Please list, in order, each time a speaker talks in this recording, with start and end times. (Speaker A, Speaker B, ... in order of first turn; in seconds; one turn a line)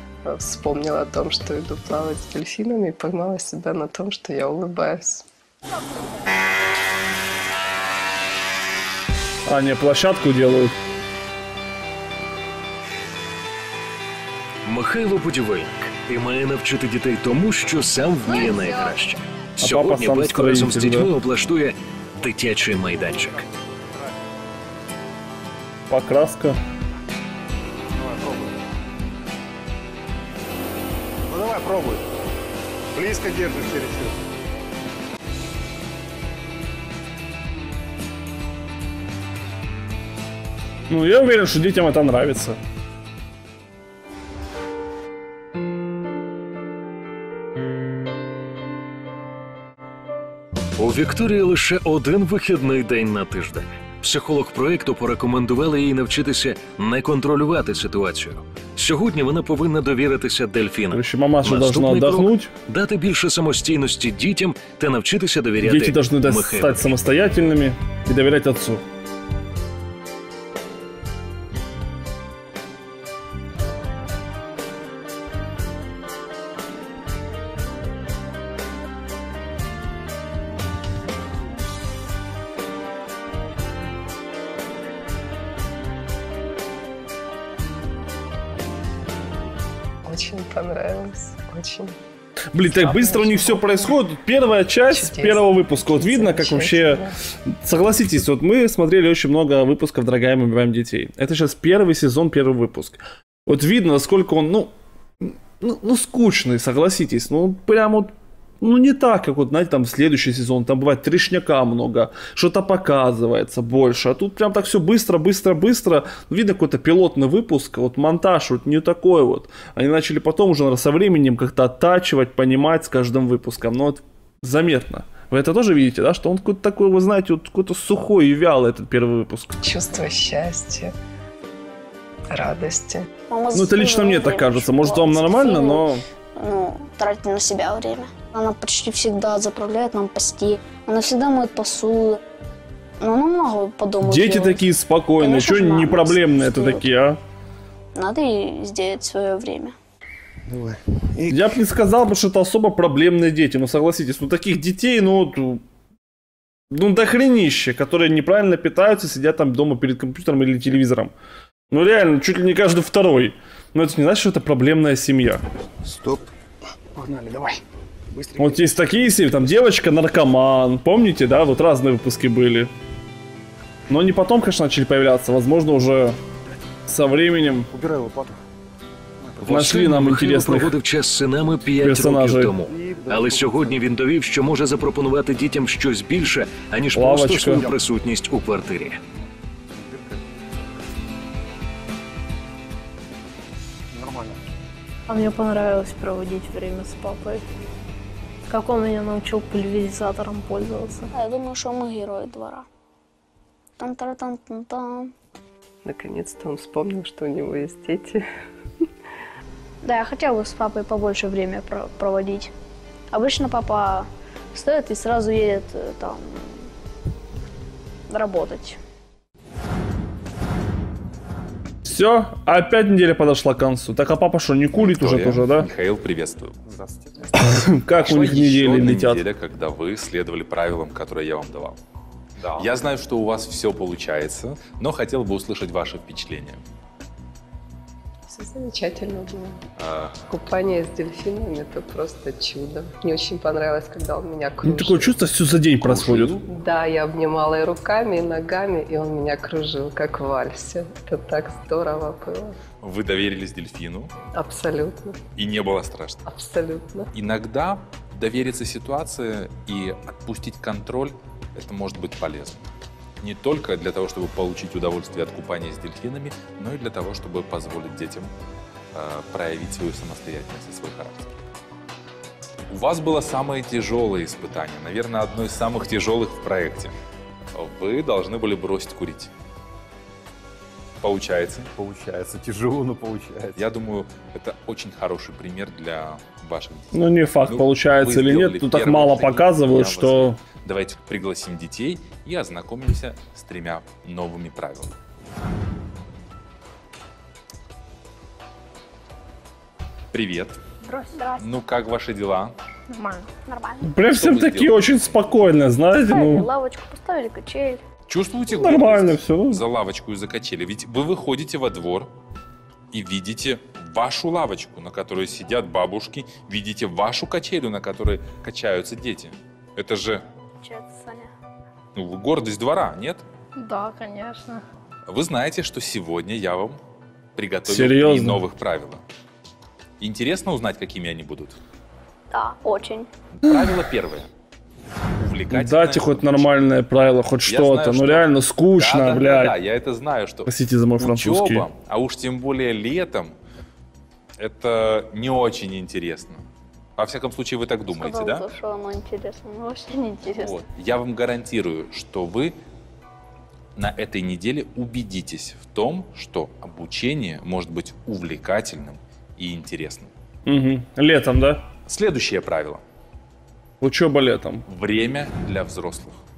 Speaker A: 0.2-5.2
Speaker B: 9.5-10.8
Speaker C: 14.7-23.5
Speaker B: 19.6-21.1
Speaker D: 23.0-23.5
Speaker B: 25.9-26.6
Speaker D: 27.9-28.6
Speaker D: 31.3-32.1
Speaker D: 32.9-34.2
Speaker B: 40.9-42.6
Speaker C: 50.8-67.0
Speaker B: 60.9-62.5
Speaker B: 65.6-68.8
Speaker A: 90.0-92.0
Speaker B: 92.5-104.7
Speaker A: 92.7-93.9
Speaker A: 94.9-97.1
Speaker B: 105.2-129.6
Speaker A: 129.6-130.9
Speaker A: 132.3-133.1
Speaker E: 133.3-142.2
Speaker B: 133.5-136.0
Speaker E: 143.0-144.7
Speaker B: 144.0-147.2
Speaker E: 145.2-146.9
Speaker E: 147.9-149.8
Speaker D: 150.5-151.4
Speaker B: 151.3-155.6
Speaker B: 156.7-161.1
Speaker B: 161.7-165.4
Speaker D: 165.8-166.2
Speaker D: 166.9-167.6
Speaker D: 168.1-168.7
Speaker B: 168.4-172.7
Speaker B: 173.9-176.2
Speaker B: 176.9-177.7
Speaker D: 177.7-178.4
Speaker D: 179.2-179.7
Speaker C: 179.4-189.0
Speaker B: 179.4-180.7
Speaker B: 181.8-182.5
Speaker D: 182.7-183.9
Speaker B: 186.9-187.7
Speaker D: 187.4-187.8
Speaker D: 189.7-190.2
Speaker D: 193.9-194.4
Speaker F: 195.1-197.4
Speaker F: 198.5-201.1
Speaker E: 201.1-202.7
Speaker E: 203.8-205.1
Speaker A: 205.8-208.2
Speaker E: 209.8-212.5
Speaker E: 213.1-216.7
Speaker E: 218.1-218.8
Speaker B: 221.8-225.7
Speaker G: 224.8-226.6
Speaker D: 226.7-227.8
Speaker B: 227.4-229.2
Speaker G: 227.9-231.8
Speaker G: 232.4-236.6
Speaker A: 238.3-239.6
Speaker G: 239.8-240.2
Speaker A: 240.3-245.2
Speaker B: 244.6-246.4
Speaker G: 245.8-246.4
Speaker A: 246.5-252.6
Speaker G: 252.8-254.1
Speaker A: 254.3-255.2
Speaker G: 255.4-256.2
Speaker A: 256.3-257.1
Speaker G: 257.1-262.7
Speaker G: 263.2-268.3
Speaker G: 268.9-271.3
Speaker G: 272.7-277.0
Speaker G: 277.5-279.3
Speaker G: 281.0-281.7
Speaker D: 281.8-283.6
Speaker G: 283.6-294.9
Speaker B: 286.9-290.4
Speaker G: 300.1-300.6
Speaker E: 301.1-301.5
Speaker G: 301.4-302.5
Speaker F: 302.9-303.3
Speaker E: 303.5-303.9
Speaker B: 303.8-306.5
Speaker G: 304.1-305.3
Speaker E: 306.1-307.8
Speaker G: 308.1-312.1
Speaker B: 308.6-309.6
Speaker G: 312.9-320.2
Speaker E: 320.6-321.3
Speaker G: 321.9-323.2
Speaker F: 323.6-324.6
Speaker G: 325.1-326.8
Speaker G: 327.4-329.0
Speaker B: 327.7-328.4
Speaker G: 330.0-331.6
Speaker E: 332.3-333.1
Speaker G: 333.4-334.3
Speaker G: 335.2-336.6
Speaker B: 335.5-339.6
Speaker G: 337.4-343.3
Speaker B: 340.5-341.7
Speaker G: 344.4-346.4
Speaker G: 347.0-348.5
Speaker E: 347.9-350.6
Speaker G: 350.3-352.6
Speaker G: 353.8-360.1
Speaker B: 360.5-361.6
Speaker G: 361.9-362.8
Speaker B: 363.8-364.6
Speaker G: 364.7-366.2